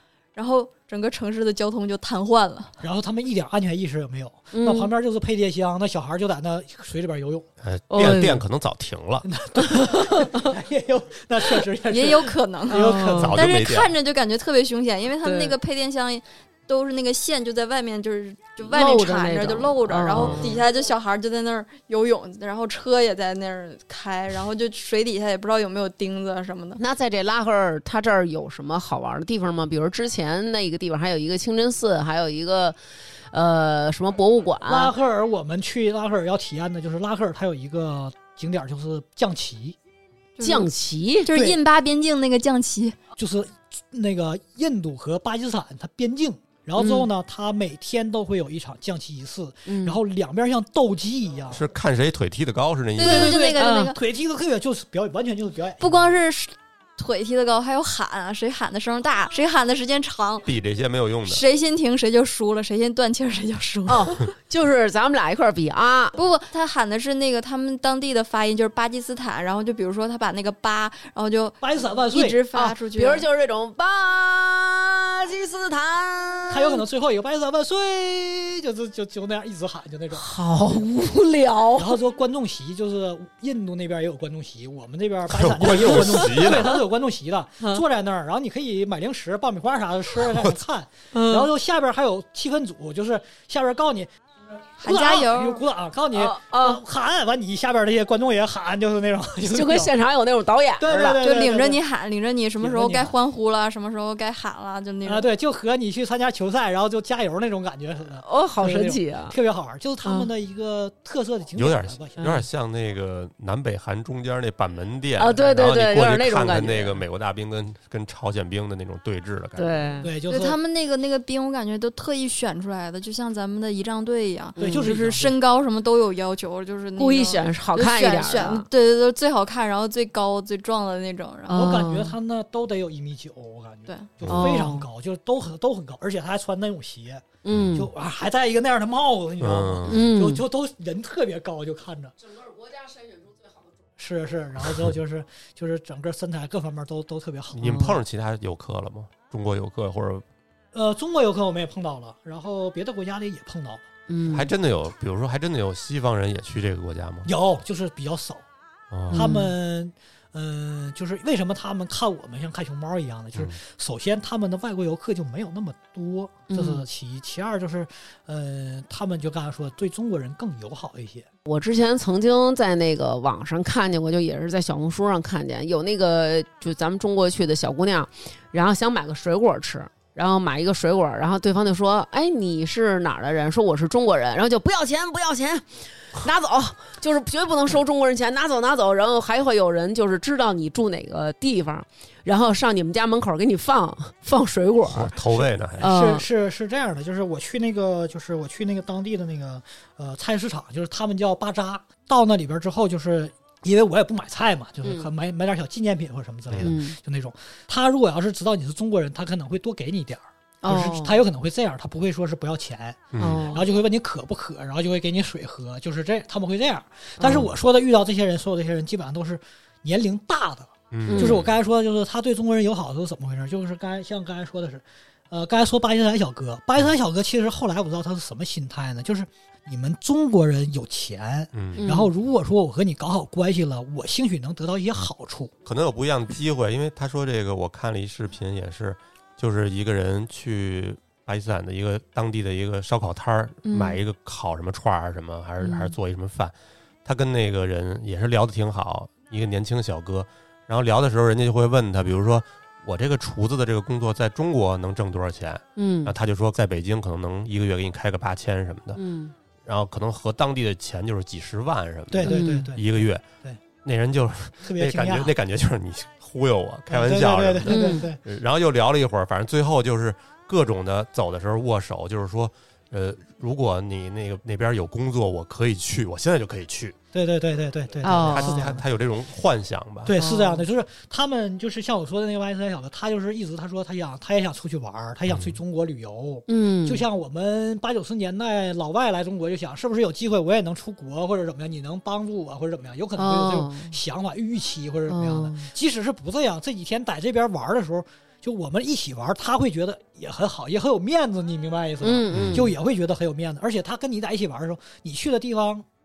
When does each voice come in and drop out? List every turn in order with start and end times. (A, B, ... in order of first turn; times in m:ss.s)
0:00.4-0:02.8 A
0:02.8-0:07.5 B
0:04.5-0:04.9 C
0:07.6-0:09.3 D
0:07.9-0:08.4 C
0:09.2-0:13.5 B
0:09.6-0:10.5 C
0:11.9-0:26.8 A
0:12.7-0:13.4 C
0:13.2-0:13.9 D
0:15.2-0:15.6 C
0:18.6-0:20.6 C
0:20.1-0:20.6 D
0:26.8-0:32.8 C
0:33.3-0:34.9 C
0:34.6-0:39.8 B
0:40.4-0:40.7 A
0:40.4-0:41.3 C
0:41.2-0:43.0 A
0:41.3-0:41.6 B
0:43.2-0:51.7 B
0:46.8-0:47.1 C
0:49.7-0:50.0 C
0:51.5-0:53.4 D
0:53.0-0:54.0 A
0:53.0-0:56.2 B
0:53.6-0:53.9 C
0:55.8-1:00.5 A
1:00.4-1:01.4 D
1:01.2-1:04.3 A
1:03.9-1:06.2 C
1:06.2-1:13.3 A
1:11.6-1:12.4 B
1:12.5-1:16.8 C
1:16.5-1:20.3 B
1:20.1-1:22.0 C
1:21.8-1:34.1 B
1:25.3-1:26.8 D
1:25.8-1:26.6 C
1:31.1-1:31.5 C
1:34.8-1:39.9 B
1:34.8-1:35.6 A
1:36.1-1:36.8 C
1:39.4-1:41.2 C
1:40.8-1:41.8 B
1:41.2-1:45.3 A
1:42.6-1:43.2 B
1:45.0-1:52.3 B
1:48.2-1:49.4 C
1:50.0-1:50.3 C
1:51.6-1:59.9 D
1:52.2-1:52.5 C
1:55.2-1:57.0 C
1:59.6-2:00.1 C
2:00.0-2:00.6 B
2:00.3-2:11.8 A
2:04.6-2:04.8 C
2:04.6-2:05.4 B
2:07.0-2:08.7 C
2:11.5-2:12.1 C
2:11.5-2:22.2 B
2:14.2-2:14.5 D
2:14.3-2:14.9 C
2:17.4-2:17.9 C
2:19.4-2:20.1 D
2:19.9-2:20.4 C
2:24.0-2:27.9 B
2:27.5-2:30.2 D
2:27.6-2:28.0 C
2:30.7-2:33.8 B
2:34.1-2:34.5 C
2:34.3-2:37.3 D
2:37.2-2:38.4 B
2:38.9-2:39.3 D
2:39.1-2:39.5 C
2:39.1-2:51.3 B
2:46.5-2:46.8 C
2:51.4-3:15.2 C
3:14.9-3:15.9 D
3:15.8-3:16.3 C
3:15.8-3:55.5 B
3:24.8-3:25.1 C
3:26.5-3:26.7 D
3:26.6-3:27.0 C
3:30.6-3:31.2 C
3:33.1-3:33.5 D
3:33.2-3:33.7 C
3:37.2-3:37.5 C
3:37.2-3:37.5 D
3:40.9-3:41.5 D
3:41.1-3:41.4 C
3:51.5-3:51.9 D
3:51.8-3:52.1 C
3:55.6-4:06.5 D
4:03.6-4:04.0 C
4:05.6-4:06.0 C
4:07.0-4:19.0 D
4:15.8-4:16.1 C
4:19.0-4:19.3 C
4:19.6-4:37.0 D
4:22.1-4:23.6 B
4:22.2-4:22.7 C
4:24.6-4:25.3 B
4:26.9-4:28.2 B
4:27.7-4:28.1 C
4:37.1-4:38.8 B
4:38.0-4:38.8 C
4:38.2-4:40.1 D
4:40.0-5:05.9 B
4:40.2-4:40.6 C
4:45.3-4:45.5 D
4:46.5-4:47.0 C
4:53.2-4:54.0 C
4:55.1-4:55.7 C
5:02.0-5:02.7 C
5:02.3-5:02.7 D